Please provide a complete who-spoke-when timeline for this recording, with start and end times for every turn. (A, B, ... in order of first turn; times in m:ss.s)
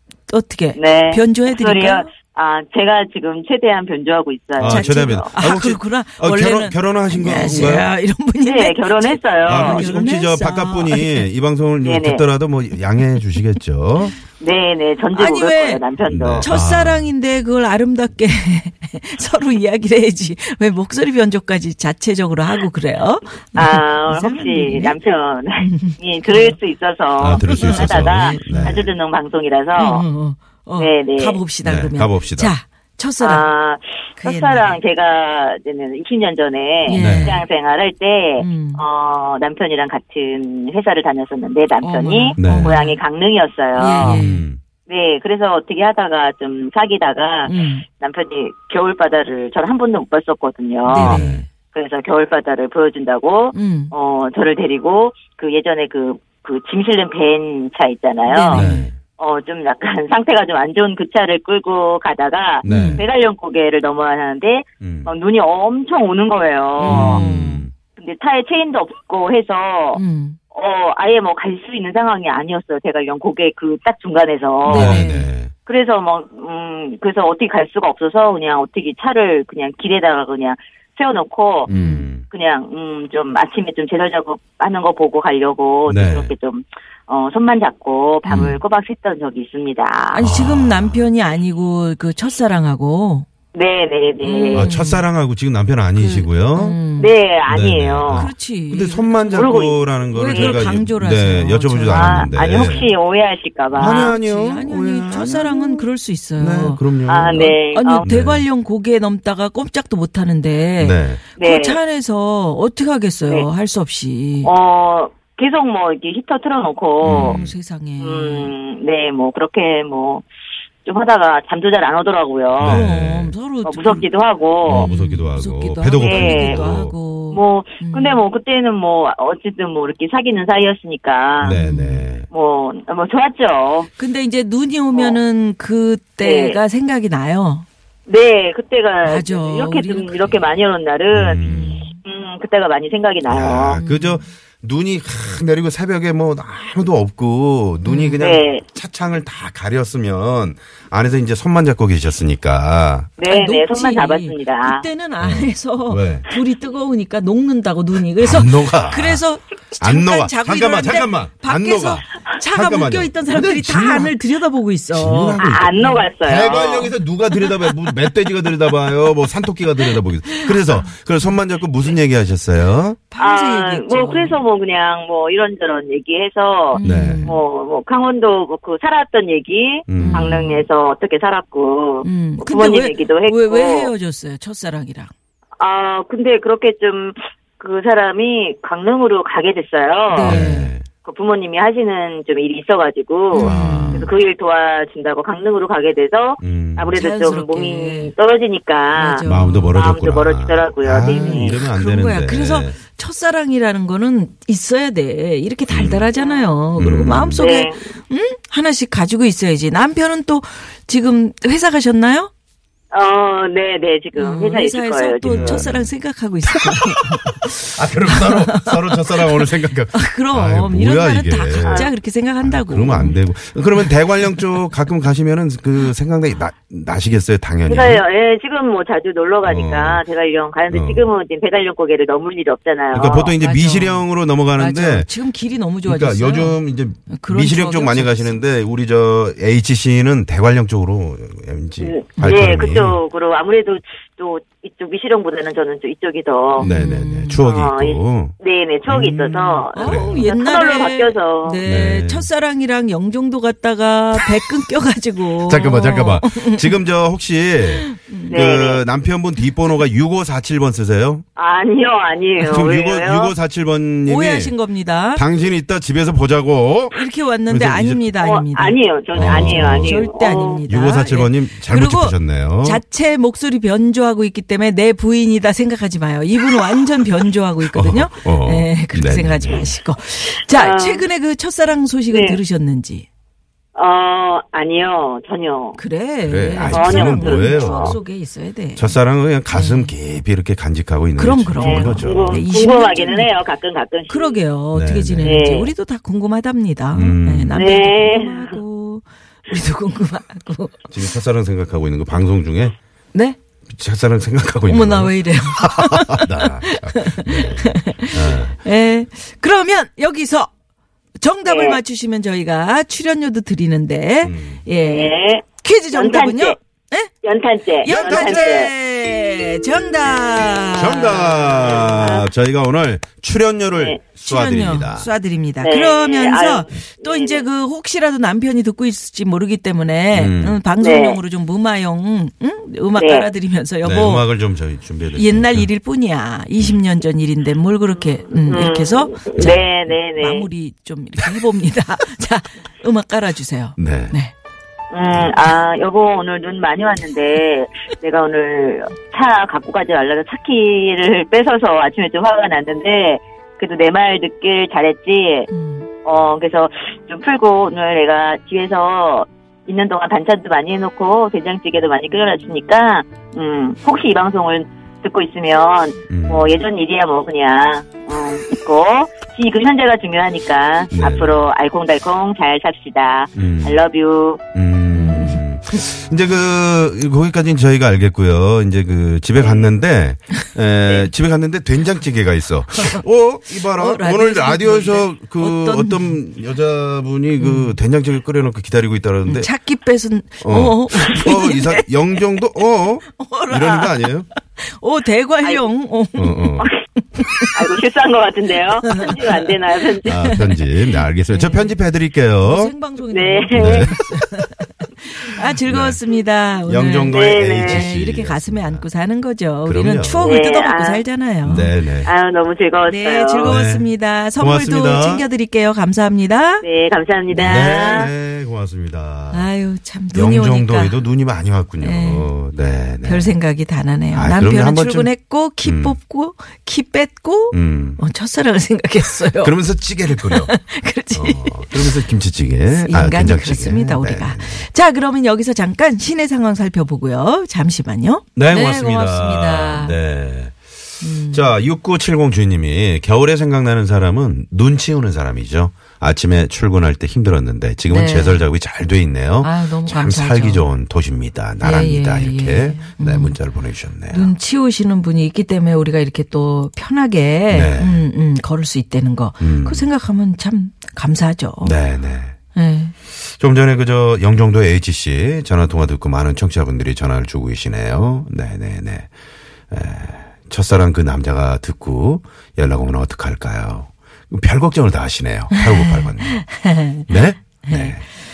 0:00.3-0:02.1 A
0:00.8-0:05.3 B
0:04.6-0:07.9 C
0:04.6-0:11.3 A
0:08.4-0:09.9 B
0:09.4-0:14.2 C
0:11.8-0:12.2 B
0:14.4-0:16.5 B
0:15.1-0:15.8 A
0:16.1-0:17.1 C
0:16.4-0:25.0 A
0:23.6-0:30.0 B
0:25.6-0:26.6 A
0:27.2-0:28.9 C
0:27.3-0:28.8 A
0:29.8-0:33.5 A
0:30.8-0:31.4 B
0:31.6-0:32.5 C
0:33.2-0:44.2 B
0:34.2-0:34.8 A
0:36.9-0:37.5 A
0:36.9-0:37.4 C
0:38.4-0:38.8 A
0:41.8-0:43.0 A
0:42.4-0:42.8 C
0:43.8-0:44.5 A
0:44.0-0:44.6 C
0:44.9-1:07.2 B
0:47.5-0:47.9 A
0:50.8-0:51.4 A
0:51.0-0:51.4 C
0:53.5-0:53.9 A
0:58.3-0:58.9 A
0:58.5-0:59.0 C
1:02.6-1:03.0 C
1:02.6-1:03.0 A
1:04.8-1:05.1 C
1:06.8-1:07.7 A
1:06.8-1:07.7 C
1:08.0-1:10.0 B
1:09.9-1:10.4 A
1:10.5-1:15.1 B
1:14.6-1:15.3 A
1:14.6-1:15.5 C
1:15.7-1:21.7 B
1:21.7-1:22.2 C
1:21.7-1:22.1 A
1:22.3-1:30.2 B
1:25.9-1:26.3 C
1:28.3-1:28.6 A
1:28.3-1:28.6 C
1:30.1-1:33.3 A
1:30.2-1:31.1 C
1:33.5-1:34.7 B
1:34.2-1:35.1 A
1:34.6-1:36.8 C
1:36.0-1:37.1 A
1:37.0-1:38.3 B
1:37.5-1:42.9 C
1:38.1-1:39.5 A
1:39.4-1:40.6 B
1:40.1-1:42.9 A
1:41.9-1:44.1 B
1:43.7-1:48.5 C
1:43.8-1:54.5 A
1:47.1-1:48.1 B
1:50.8-1:51.2 C
1:51.4-1:51.8 B
1:54.4-1:57.4 B
1:57.0-1:57.6 C
1:57.0-1:58.5 A
1:58.0-2:00.2 B
2:00.8-2:02.9 B
2:02.6-2:03.3 C
2:02.6-2:04.1 A
2:03.6-2:04.9 B
2:04.6-2:07.0 C
2:04.6-2:08.2 A
2:06.0-2:06.7 B
2:07.3-2:11.6 B
2:11.4-2:12.3 C
2:11.5-2:12.1 A
2:12.3-2:13.9 B
2:13.9-2:17.7 A
2:14.9-2:15.2 B
2:16.2-2:16.6 B
2:18.1-2:21.5 B
2:19.0-2:20.6 A
2:21.1-2:21.8 C
2:21.4-2:22.0 A
2:22.0-2:23.8 B
2:23.3-2:33.1 C
2:23.8-2:24.3 A
2:27.8-2:28.2 A
2:28.2-2:28.6 B
2:33.2-2:34.9 B
2:33.3-2:46.1 A
2:35.2-2:36.3 C
2:38.2-2:39.2 C
2:39.8-2:44.2 C
2:44.9-2:53.0 C
2:45.4-2:46.9 B
2:47.4-2:47.7 A
2:49.9-2:51.4 A
2:53.1-2:54.4 A
2:53.2-3:03.9 B
2:56.7-2:57.4 A
2:56.8-2:57.4 C
2:59.9-3:00.5 C
2:59.9-3:00.7 A
3:02.0-3:05.1 A
3:05.6-3:10.4 B
3:10.1-3:10.7 A
3:10.2-3:10.9 C
3:11.0-3:21.6 B
3:13.3-3:14.1 A
3:13.4-3:14.1 C
3:16.4-3:17.0 C
3:16.9-3:18.1 A
3:18.9-3:19.7 A
3:19.2-3:22.8 C
3:21.1-3:32.3 A
3:25.7-3:26.1 C
3:26.2-3:26.5 B
3:26.8-3:27.4 C
3:27.4-3:27.9 B
3:32.9-3:35.6 B
3:34.2-3:43.2 A
3:35.3-3:35.9 C
3:36.5-3:48.0 C
3:41.6-3:41.9 B
3:43.7-3:44.4 A
3:47.7-3:53.3 B
3:49.4-3:50.0 C
3:50.7-3:51.1 C
3:52.9-3:55.1 C
3:53.4-3:58.4 A
3:55.8-4:03.0 C
4:01.8-4:06.7 B
4:02.2-4:02.6 A
4:06.6-4:07.4 A
4:06.6-4:08.4 C
4:07.4-4:11.6 B
4:08.9-4:10.3 C
4:09.7-4:16.7 A
4:11.6-4:12.3 C
4:15.4-4:21.2 C
4:17.6-4:18.6 A
4:18.3-4:18.8 B
4:21.4-4:23.4 B
4:22.4-4:24.6 C
4:24.0-4:25.2 A
4:25.1-4:28.1 C
4:26.9-4:43.1 A
4:28.2-4:30.6 B
4:29.1-4:30.1 C
4:30.7-4:32.8 C
4:37.7-4:39.7 C
4:40.5-4:41.1 B
4:42.1-4:42.4 B
4:43.8-4:45.8 B
4:45.8-4:49.0 A
4:46.3-4:48.0 C
4:46.7-4:48.0 B
4:48.8-4:52.4 C
4:49.5-4:49.9 A
4:51.2-4:53.4 A
4:51.6-4:54.4 B
4:54.1-5:00.9 A
4:54.7-4:55.5 C
4:55.2-4:55.7 B
4:56.9-4:57.6 C
4:57.5-4:58.6 B
5:00.9-5:02.8 C
5:03.1-5:03.4 A
5:03.7-5:08.6 C
5:04.7-5:10.5 A
5:11.2-5:17.1 A
5:11.4-5:11.8 B
5:14.2-5:14.6 C
5:14.8-5:16.6 B
5:17.2-5:18.7 B
5:17.8-5:21.9 A
5:17.9-5:18.6 C
5:20.7-5:25.1 C
5:21.6-5:22.3 B
5:23.8-5:24.0 B
5:24.2-5:34.3 A
5:25.6-5:27.5 B
5:30.1-5:30.6 C
5:30.8-5:31.2 B
5:33.0-5:33.3 B
5:33.8-5:35.7 C
5:35.2-5:44.3 A
5:38.0-5:40.5 B
5:43.8-5:44.2 C
5:44.9-5:55.5 B
5:55.5-5:55.9 A
5:56.0-6:14.4 B
6:06.1-6:06.6 C
6:10.9-6:11.4 C
6:13.4-6:13.8 C
6:14.5-6:29.5 C
6:14.9-6:15.5 A
6:19.4-6:19.7 B
6:23.7-6:26.2 A
6:27.4-6:27.8 A
6:29.2-6:32.4 A
6:30.4-6:34.3 C
6:33.2-6:37.6 A
6:36.2-6:36.7 C
6:37.5-6:40.2 B
6:38.9-6:41.8 A
6:40.0-6:42.7 C
6:42.4-6:51.7 A
6:43.1-6:44.0 B
6:43.5-6:44.2 C
6:45.6-6:46.0 C
6:46.7-6:48.9 C
6:47.1-6:47.9 B
6:49.6-6:50.4 C
6:50.2-6:51.1 B
6:51.4-6:52.1 C
6:52.0-6:53.6 B
6:52.9-6:56.6 A
6:53.4-6:55.3 C
6:56.6-6:58.1 B
6:57.3-6:59.5 C
6:57.4-6:58.0 A
6:59.3-7:01.0 A
7:00.1-7:03.4 C
7:01.8-7:02.3 A
7:03.0-7:09.6 A
7:04.1-7:05.1 C
7:05.6-7:06.0 C
7:07.5-7:08.0 C
7:09.4-7:10.5 C
7:10.1-7:12.0 A
7:11.1-7:14.7 C
7:12.7-7:20.0 A
7:18.4-7:20.6 C
7:21.0-7:21.6 A
7:21.3-7:34.3 C
7:27.9-7:28.4 A
7:29.4-7:30.7 A
7:31.6-7:33.4 A
7:34.1-7:41.8 A
7:37.5-7:38.0 C
7:39.4-7:39.9 C
7:41.6-7:42.3 C
7:42.5-7:42.9 A
7:43.2-7:49.1 C
7:49.7-7:58.0 C
7:55.5-7:57.1 A
7:57.6-7:58.0 A